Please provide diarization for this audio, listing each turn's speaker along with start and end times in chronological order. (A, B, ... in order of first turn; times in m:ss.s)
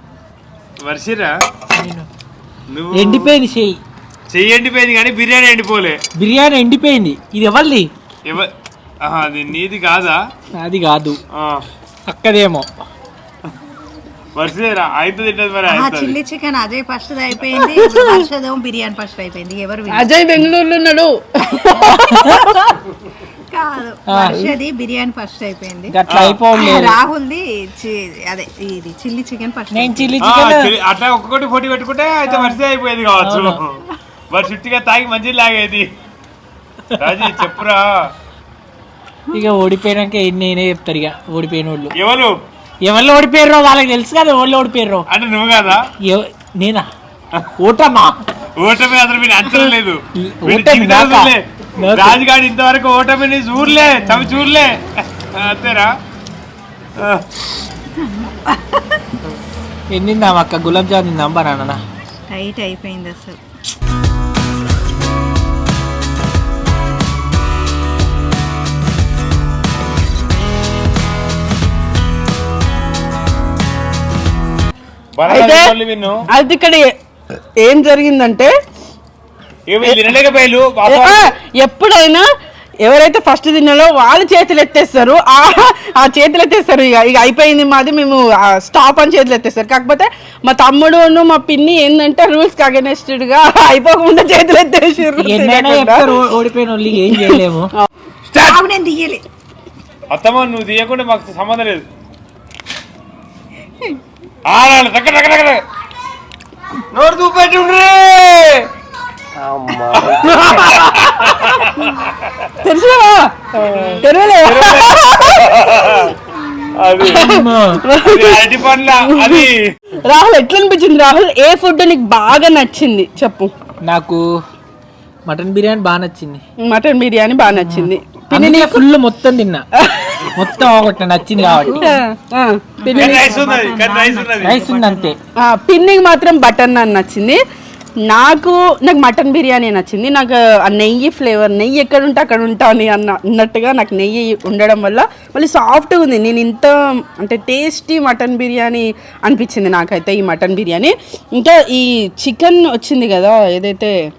0:00.8-0:01.3 A
0:01.7-0:02.1 B
0:02.7-0:03.3 A
0:02.9-0:03.8 B
0:04.3-0:06.0 A
0:06.2-0:07.9 B
0:08.3-0:10.2 A
0:10.6-0:11.2 B
0:11.3-0:11.7 A
0:12.1-0:12.7 B
0:14.4-0:16.2 A
0:15.7-0:20.1 C
0:17.5-0:18.2 D
0:19.9-0:22.7 D
0:21.9-0:22.5 B
0:23.5-0:26.0 C
0:24.1-0:24.5 B
0:25.9-0:27.0 B
0:26.1-0:26.4 A
0:26.5-0:30.2 C
0:29.7-0:30.7 B
0:30.2-0:35.9 A
0:33.2-0:33.6 B
0:37.0-0:38.1 A
0:39.3-0:41.9 B
0:42.0-0:42.4 A
0:42.8-0:45.0 B
0:45.1-0:45.9 A
0:46.0-0:46.9 B
0:47.6-0:48.2 B
0:48.6-0:55.9 A
0:50.2-0:52.2 B
0:57.0-0:57.3 A
0:58.0-0:59.0 C
0:59.9-1:01.8 B
1:02.3-1:03.4 C
1:15.2-1:16.2 A
1:15.3-1:15.7 D
1:16.3-1:16.9 D
1:17.6-1:18.5 D
1:19.7-1:21.3 A
1:20.9-1:22.3 D
1:22.8-1:36.2 D
1:35.1-1:37.7 B
1:37.0-1:37.9 D
1:38.3-1:38.6 A
1:38.4-1:39.2 C
1:40.1-1:41.8 A
1:44.5-1:45.6 A
1:46.9-1:48.6 E
1:47.2-1:47.8 A
1:49.4-1:50.4 E
1:50.1-1:52.4 A
1:50.5-1:50.8 D
1:52.6-1:53.3 D
1:53.6-1:56.1 A
1:54.0-1:56.0 D
1:56.8-1:57.3 A
1:57.0-1:59.5 D
1:57.1-1:57.8 B
1:57.9-1:59.7 A
2:00.0-2:03.5 D
2:03.8-2:04.2 B
2:05.3-2:06.4 B
2:06.6-2:08.8 D
2:07.6-2:09.6 B
2:09.8-2:10.4 D
2:10.4-2:11.9 B
2:11.4-2:12.0 C
2:11.7-2:13.3 D
2:12.8-2:15.1 C
2:12.9-2:14.6 A
2:14.4-2:15.2 B
2:15.4-2:17.4 D
2:18.1-2:34.0 D